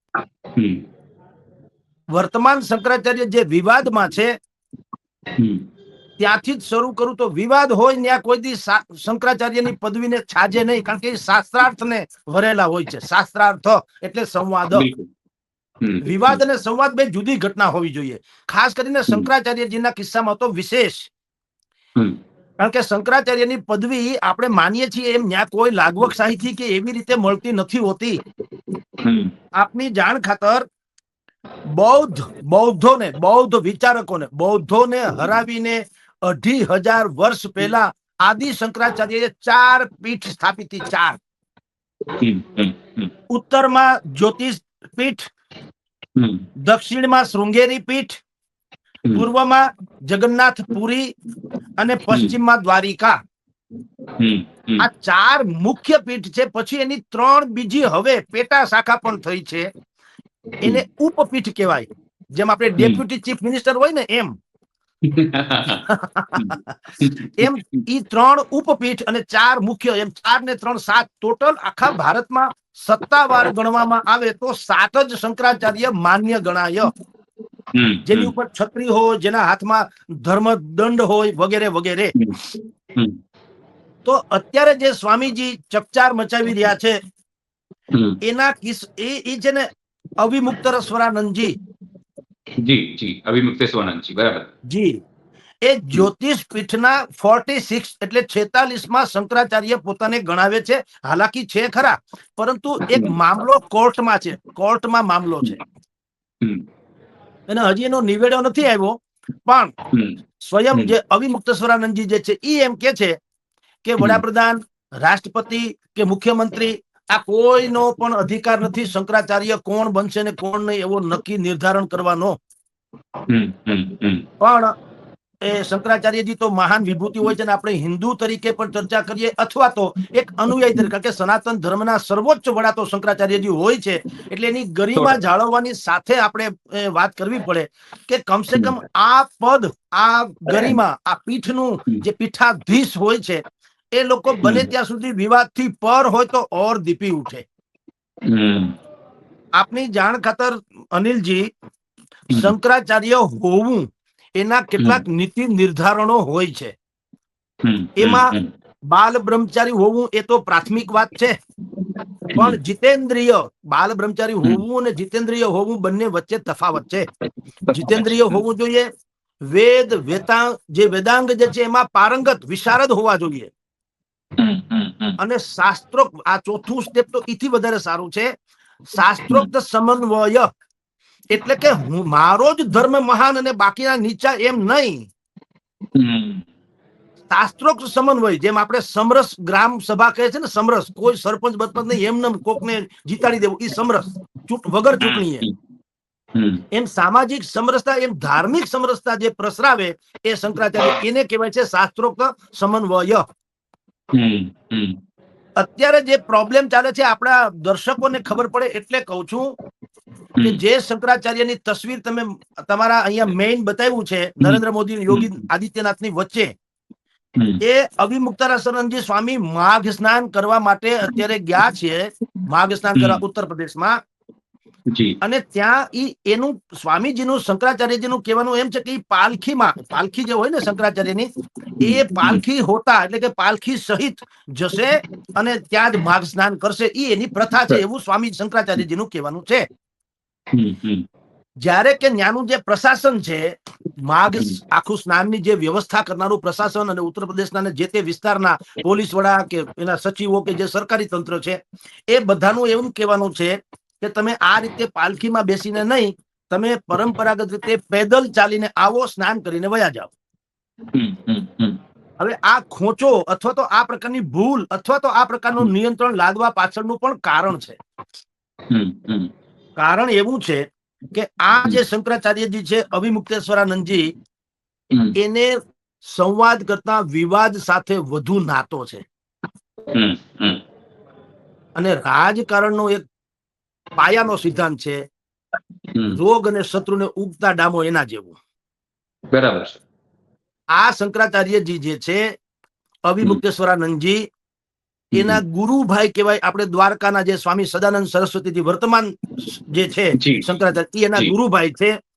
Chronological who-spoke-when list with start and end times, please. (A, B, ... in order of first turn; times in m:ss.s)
0:00.6-0:00.8 A
0:02.1-0:04.4 B
0:05.4-0:05.6 A
0:06.2-0:14.9 B
0:14.7-0:15.1 A
0:15.8-0:16.4 A
0:16.0-0:21.1 B
0:22.6-0:28.2 B
0:29.0-0:29.3 A
0:29.6-0:30.7 B
0:31.7-0:41.2 B
0:42.2-0:43.1 A
0:43.3-0:45.3 B
0:46.2-0:46.5 A
0:46.6-0:48.2 B
0:49.1-0:51.1 B
0:51.8-0:53.2 B
0:54.2-0:54.8 A
0:54.8-0:59.7 B
1:00.6-1:04.4 B
1:05.1-1:07.8 A
1:05.8-1:16.9 B
1:17.8-1:18.3 A
1:18.1-1:22.1 B
1:22.2-1:22.4 A
1:24.0-1:27.0 B
1:27.9-1:28.2 A
1:28.2-1:29.7 B
1:30.2-1:31.6 B
1:32.6-1:34.5 A
1:34.7-1:35.0 B
1:35.6-1:45.6 B
1:42.8-1:43.2 A
1:47.5-1:49.7 B
1:49.9-1:50.2 A
1:50.4-1:53.2 B
1:53.8-2:02.4 B
2:03.3-2:04.2 A
2:04.4-2:04.7 B
2:05.4-2:23.4 B
2:15.0-2:15.2 A
2:20.5-2:20.8 A
2:24.0-2:27.4 B
2:24.4-2:24.7 A
2:28.3-2:28.8 A
2:29.6-2:31.5 B
2:32.3-2:36.8 B
2:37.6-2:38.5 A
2:38.0-2:38.3 B
2:38.9-2:41.4 B
2:42.3-2:42.6 A
2:42.4-2:47.1 B
2:47.7-2:48.4 A
2:47.7-2:48.9 B
2:49.5-2:53.5 B
2:54.4-2:55.2 A
2:55.2-2:58.3 B
2:58.9-3:00.5 B
3:01.3-3:05.1 B
3:06.0-3:06.5 A
3:07.3-3:15.4 B
3:15.0-3:15.6 A
3:16.4-3:16.6 A
3:16.7-3:23.2 B
3:24.2-3:25.0 A
3:25.6-3:29.5 B
3:30.4-3:36.5 B
3:34.4-3:35.3 A
3:37.6-3:44.0 B
3:43.0-3:43.2 A
3:44.9-3:45.2 A
3:45.2-3:59.7 B
3:51.8-3:52.4 A
4:00.5-4:01.0 A
4:01.6-4:20.1 B
4:20.9-4:21.8 A
4:22.2-4:27.8 B
4:28.7-4:29.3 A
4:29.8-4:34.1 B
4:35.2-4:39.0 B
4:39.9-4:40.6 A
4:41.8-4:43.0 B
4:44.0-4:45.0 B
4:45.9-4:46.2 A
4:46.2-4:48.4 B
4:49.3-4:49.8 A
4:50.7-4:52.3 B
4:53.1-4:54.2 B
4:55.2-4:55.4 A
4:55.2-5:02.0 B
5:00.2-5:00.5 A